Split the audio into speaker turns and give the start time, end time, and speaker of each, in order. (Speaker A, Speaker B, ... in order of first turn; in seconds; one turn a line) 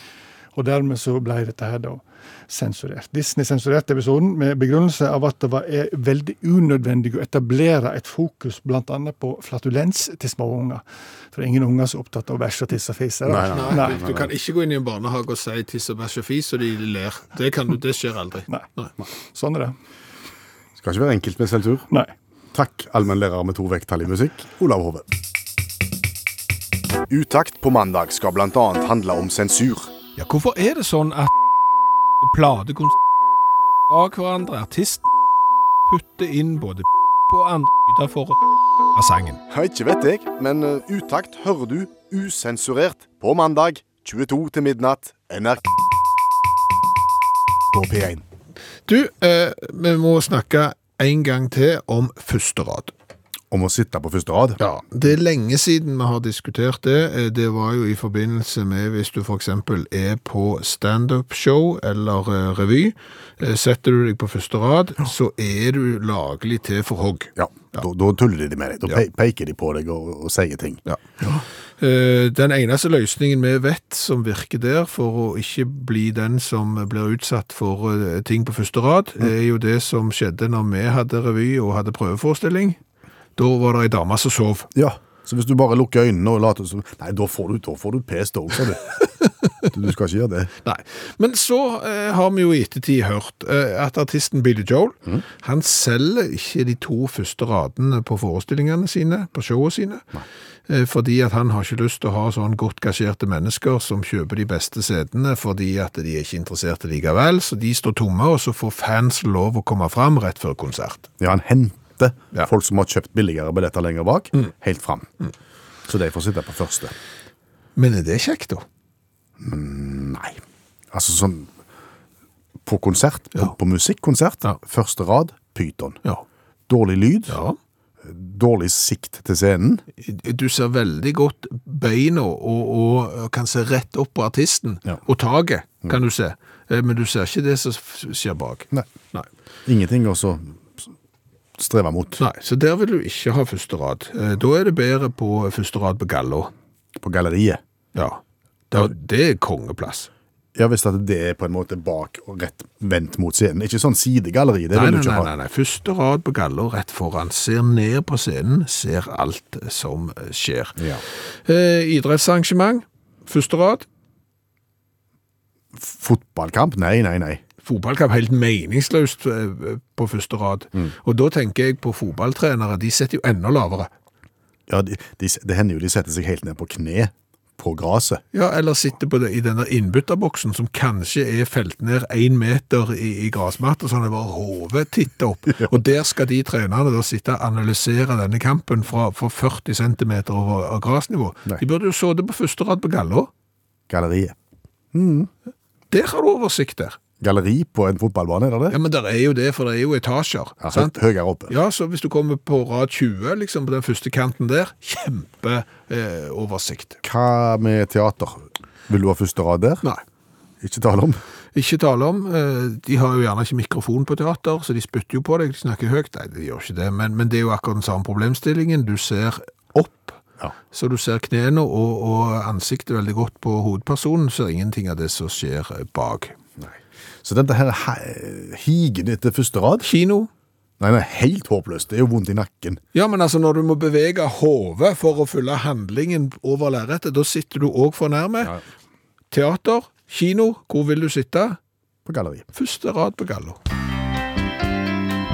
Speaker A: 0.6-14.0
Speaker B: 13.3-14.3
Speaker C: 13.5-18.9
Speaker A: 19.3-19.8
Speaker B: 20.8-21.9
Speaker B: 22.5-25.1
Speaker B: 27.1-29.9
Speaker C: 30.2-31.3
Speaker C: 32.2-33.0
Speaker C: 33.9-35.1
Speaker C: 35.9-38.4
Speaker C: 39.0-39.4
Speaker B: 39.5-45.7
Speaker B: 47.7-48.2
Speaker C: 48.9-52.9
Speaker B: 53.5-54.6
Speaker C: 54.6-67.8
Speaker B: 67.4-70.8
Speaker C: 70.9-82.8
Speaker C: 83.4-84.7
Speaker B: 84.8-88.8
Speaker B: 89.7-90.5
Speaker C: 90.6-100.1
Speaker C: 100.7-111.1
Speaker B: 111.2-115.1
Speaker B: 115.9-116.9
Speaker C: 117.8-118.6
Speaker B: 119.4-120.4
Speaker B: 120.9-121.5
Speaker B: 122.6-126.0
Speaker B: 126.7-127.4
Speaker C: 127.3-127.6
Speaker B: 128.0-129.8
Speaker C: 130.0-139.3
Speaker B: 139.7-140.9
Speaker B: 141.6-142.2
Speaker C: 142.2-146.5
Speaker B: 147.0-147.6
Speaker C: 147.9-148.2
Speaker C: 148.7-150.1
Speaker B: 150.6-155.3
Speaker C: 154.7-160.8
Speaker B: 160.8-161.0
Speaker C: 161.4-163.9
Speaker B: 165.8-167.4
Speaker C: 167.6-173.9
Speaker B: 174.7-178.2
Speaker C: 178.3-193.3
Speaker B: 193.9-194.4
Speaker B: 194.9-195.3
Speaker C: 195.9-197.0
Speaker B: 197.2-198.8
Speaker C: 198.7-207.0
Speaker B: 200.6-201.6
Speaker B: 207.0-209.8
Speaker B: 210.6-211.2
Speaker C: 211.5-226.3
Speaker B: 226.6-229.9
Speaker C: 229.8-230.3
Speaker B: 230.8-232.8
Speaker C: 232.9-238.6
Speaker C: 239.3-241.6
Speaker B: 242.1-242.4
Speaker C: 242.6-243.6